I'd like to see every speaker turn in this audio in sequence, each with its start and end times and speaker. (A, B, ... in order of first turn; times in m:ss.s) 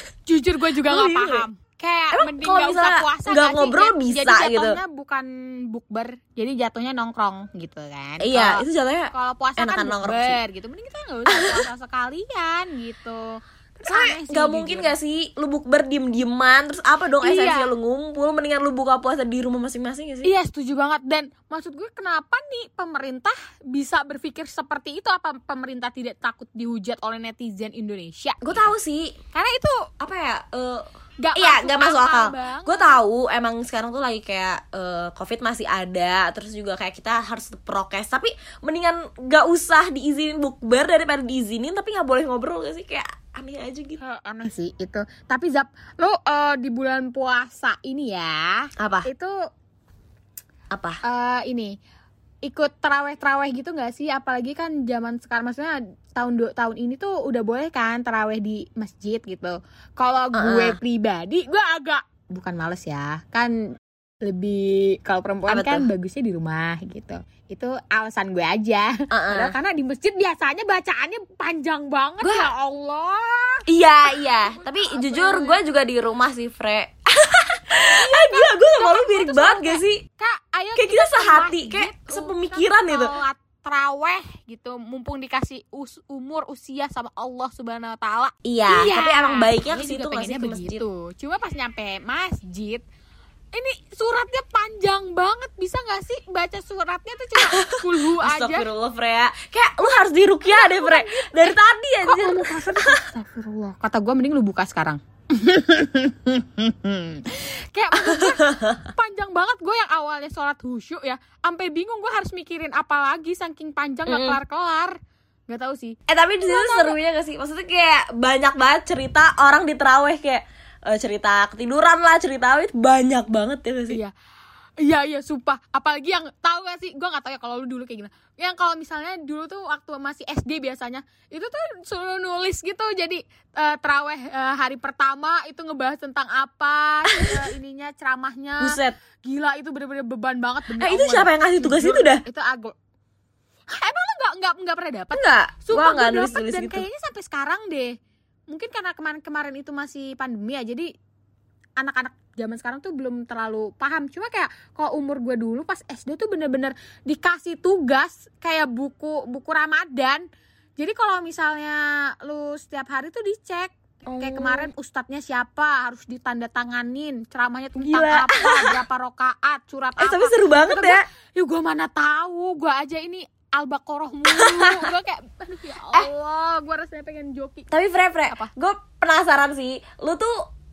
0:00.3-0:14.9 A
0:00.8-0:01.4 B
0:02.1-0:04.8 B
0:08.2-0:10.4 B
0:11.3-0:11.6 B
0:13.9-0:20.3 B
0:17.2-0:17.7 A
0:20.2-0:28.7 A
0:28.4-0:29.1 B
0:29.3-0:29.8 A
0:30.0-0:30.8 B
0:31.2-0:33.0 A
0:31.3-0:44.0 B
0:44.0-0:49.3 A
0:48.8-0:49.1 B
0:50.7-0:51.0 B
0:51.0-0:51.7 A
0:52.4-1:03.5 A
1:00.3-1:00.8 B
1:04.2-1:13.6 A
1:05.5-1:05.9 B
1:09.1-1:09.5 B
1:12.2-1:12.5 B
1:13.7-1:20.0 B
1:14.4-1:15.6 A
1:17.8-1:32.8 A
1:20.8-1:23.1 B
1:28.4-1:30.8 B
1:33.5-1:38.7 A
1:37.4-1:43.0 B
1:40.5-1:54.9 A
1:48.0-1:48.8 B
1:54.1-1:54.4 B
1:55.5-1:57.0 A
1:56.1-2:04.0 B
2:04.8-2:22.7 A
2:17.1-2:17.5 B
2:18.6-2:19.0 B
2:20.8-2:22.2 B
2:23.7-2:27.9 A
2:25.1-2:26.8 B
2:28.5-2:30.9 A
2:31.8-2:40.2 A
2:40.8-2:57.7 A
2:44.1-2:44.7 B
2:47.8-2:48.7 B
2:50.0-2:51.0 B
2:54.3-2:54.7 B
2:57.7-3:00.3 B